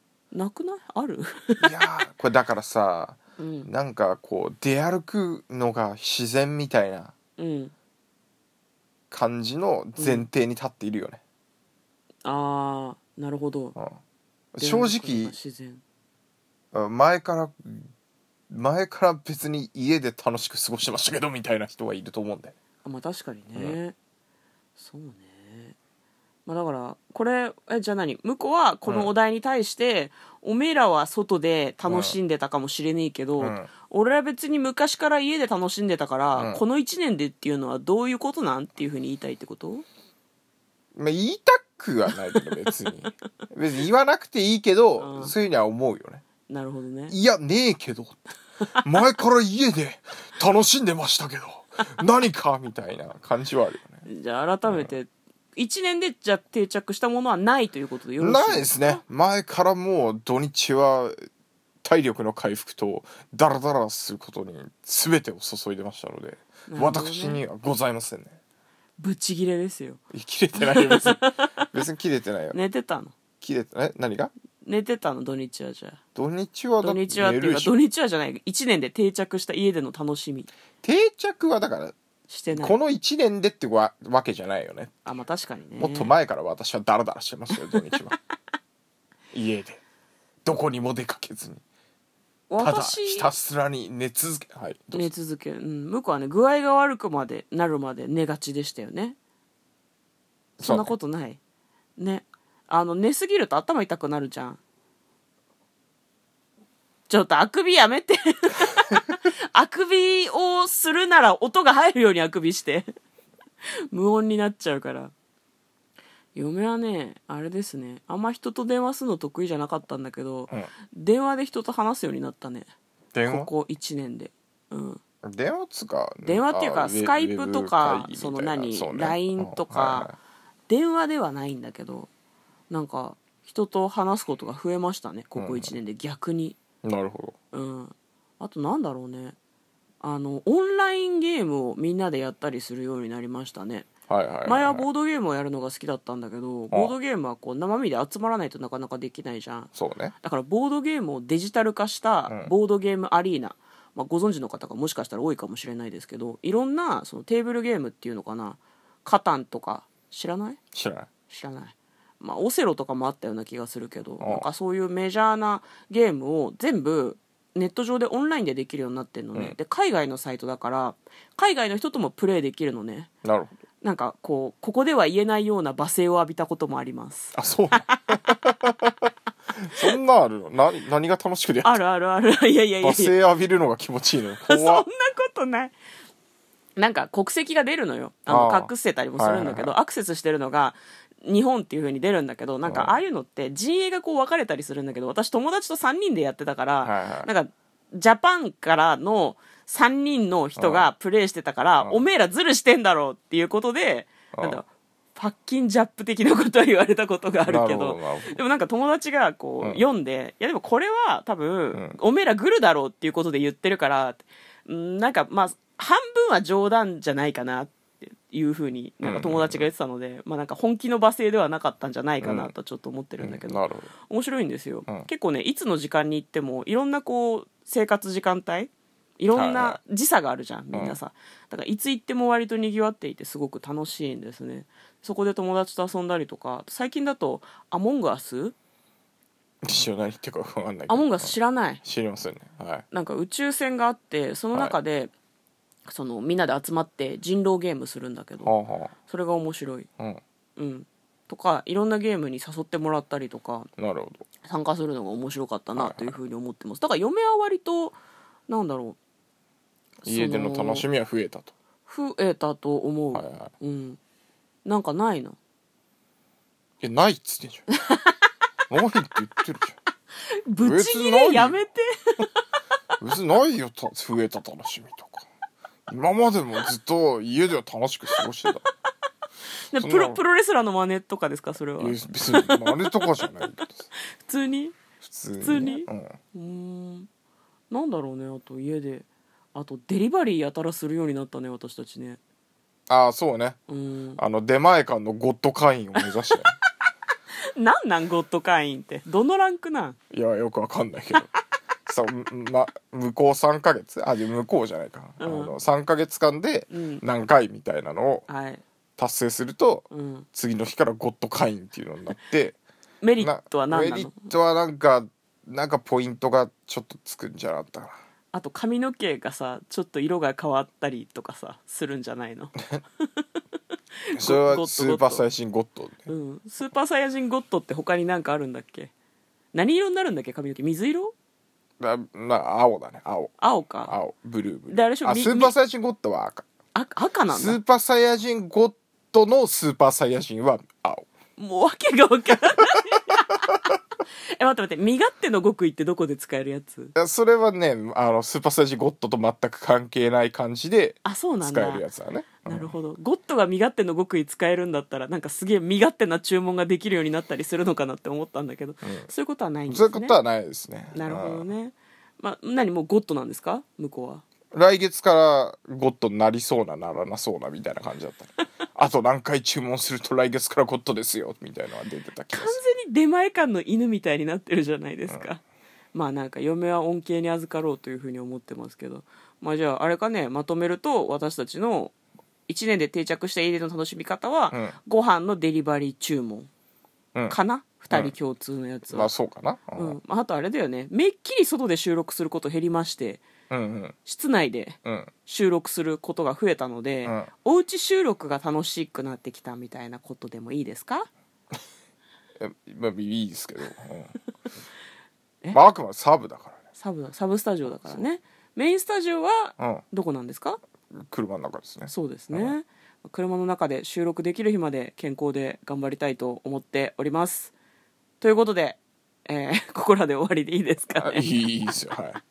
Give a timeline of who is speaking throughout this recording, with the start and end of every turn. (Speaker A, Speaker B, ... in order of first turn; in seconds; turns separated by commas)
Speaker A: 0.3-1.8, Speaker B: 1.6-7.1, Speaker A: 3.4-3.7, Speaker A: 7.4-7.7, Speaker B: 9.1-11.2, Speaker A: 10.0-10.2, Speaker A: 12.2-13.8, Speaker B: 14.5-15.3, Speaker A: 14.6-15.8, Speaker B: 16.7-17.9, Speaker B: 18.5-22.6, Speaker A: 22.8-23.9, Speaker A: 24.8-25.8, Speaker A: 26.4-39.8, Speaker B: 28.9-29.1, Speaker B: 31.9-32.2, Speaker B: 33.4-33.7, Speaker B: 36.3-36.6, Speaker B: 40.9-46.2, Speaker A: 45.0-45.3, Speaker A: 46.5-47.2, Speaker B: 47.1-48.2, Speaker B: 48.8-54.1, Speaker A: 54.0-59.0, Speaker B: 54.6-54.9, Speaker B: 58.2-61.1, Speaker B: 61.8-68.4, Speaker A: 66.7-67.4, Speaker A: 69.0-70.0, Speaker B: 70.1-72.6, Speaker A: 70.6-71.7, Speaker A: 72.5-73.1, Speaker B: 73.4-74.3, Speaker A: 74.6-76.0, Speaker B: 76.2-77.7, Speaker A: 76.8-80.5, Speaker B: 80.8-82.0, Speaker A: 82.3-82.8, Speaker B: 82.5-85.0, Speaker A: 85.0-86.1, Speaker B: 85.8-88.2, Speaker B: 89.3-89.8, Speaker B: 90.4-91.6, Speaker A: 92.5-93.3, Speaker B: 92.6-95.1, Speaker A: 94.9-99.2, Speaker B: 100.6-100.9, Speaker A: 100.6-101.4, Speaker A: 102.0-104.6, Speaker A: 107.1-112.9, Speaker A: 113.9-115.1, Speaker A: 116.3-122.7, Speaker B: 123.1-123.5, Speaker A: 123.2-125.0, Speaker B: 125.2-130.2, Speaker A: 126.2-130.1, Speaker A: 130.7-132.1, Speaker A: 132.7-136.6, Speaker B: 135.3-135.8, Speaker B: 136.8-137.4, Speaker A: 137.5-139.4, Speaker A: 140.0-143.9, Speaker B: 144.1-144.9, Speaker A: 144.4-149.7, Speaker B: 149.8-150.1, Speaker A: 150.2-160.6, Speaker B: 160.7-161.1, Speaker A: 161.3-173.1, Speaker B: 164.2-164.4, Speaker B: 173.2-173.5, Speaker A: 173.8-177.3, Speaker B: 177.3-179.1, Speaker A: 177.9-178.2, Speaker B: 179.6-181.8, Speaker A: 181.6-183.1, Speaker B: 182.8-184.9, Speaker A: 184.4-185.7, Speaker A: 186.8-238.6, Speaker B: 188.3-189.8, Speaker B: 192.6-193.0, Speaker B: 196.8-197.3, Speaker B: 200.6-200.9, Speaker B: 204.3-204.6, Speaker B: 207.4-208.4, Speaker B: 219.0-219.7, Speaker B: 222.2-222.5, Speaker B: 223.2-223.9, Speaker B: 229.3-229.8, Speaker B: 230.7-231.0, Speaker B: 239.6-242.8, Speaker A: 240.9-241.8, Speaker A: 242.9-245.1, Speaker A: 245.9-248.5, Speaker B: 248.4-248.9, Speaker A: 249.1-249.9, Speaker A: 250.6-253.7, Speaker B: 253.8-254.2, Speaker A: 254.4-257.9, Speaker B: 255.8-256.1, Speaker A: 258.5-259.0, Speaker A: 260.0-260.9, Speaker B: 260.0-261.5, Speaker A: 261.9-264.0, Speaker B: 263.1-263.5, Speaker A: 264.6-265.4, Speaker B: 266.8-267.7, Speaker B: 268.7-269.8, Speaker A: 270.4-272.4, Speaker B: 270.6-271.6, Speaker B: 273.0-275.2, Speaker B: 275.9-278.6, Speaker A: 279.6-284.8, Speaker B: 279.8-280.2, Speaker B: 281.8-283.9, Speaker B: 285.0-286.2, Speaker A: 285.4-287.1, Speaker A: 287.7-292.2, Speaker B: 292.9-293.6, Speaker A: 293.7-294.2, Speaker B: 294.2-296.5, Speaker A: 297.5-300.0, Speaker B: 300.1-301.3, Speaker B: 301.9-308.2, Speaker A: 305.2-305.5, Speaker A: 306.7-307.0, Speaker A: 308.3-308.6, Speaker B: 309.0-312.6, Speaker A: 309.9-310.3, Speaker A: 313.0-314.3, Speaker B: 313.2-317.9, Speaker A: 318.3-323.2, Speaker A: 324.1-325.2, Speaker B: 324.1-326.1, Speaker A: 326.1-328.9, Speaker A: 329.5-331.1, Speaker B: 331.8-333.3, Speaker A: 333.4-333.9, Speaker B: 333.8-336.4, Speaker A: 334.7-335.5, Speaker A: 336.7-337.6, Speaker B: 337.3-341.1, Speaker A: 341.4-343.6, Speaker A: 344.4-346.9, Speaker B: 346.9-352.8, Speaker A: 351.0-351.8, Speaker A: 352.4-360.2, Speaker B: 358.8-359.1, Speaker B: 359.7-361.5, Speaker A: 360.9-364.2, Speaker B: 364.5-372.6, Speaker A: 372.3-375.4, Speaker A: 375.9-381.9, Speaker A: 382.5-386.5, Speaker B: 384.5-384.8, Speaker A: 387.3-389.1, Speaker B: 388.9-390.0, Speaker A: 389.8-393.2, Speaker B: 393.5-393.9, Speaker A: 394.1-401.1, Speaker B: 394.8-395.1, Speaker B: 402.4-404.2, Speaker B: 405.5-406.6, Speaker A: 406.8-410.6, Speaker B: 407.6-408.1, Speaker B: 409.6-409.8, Speaker B: 410.9-412.6, Speaker A: 411.9-417.5, Speaker A: 418.2-421.4, Speaker B: 421.0-422.2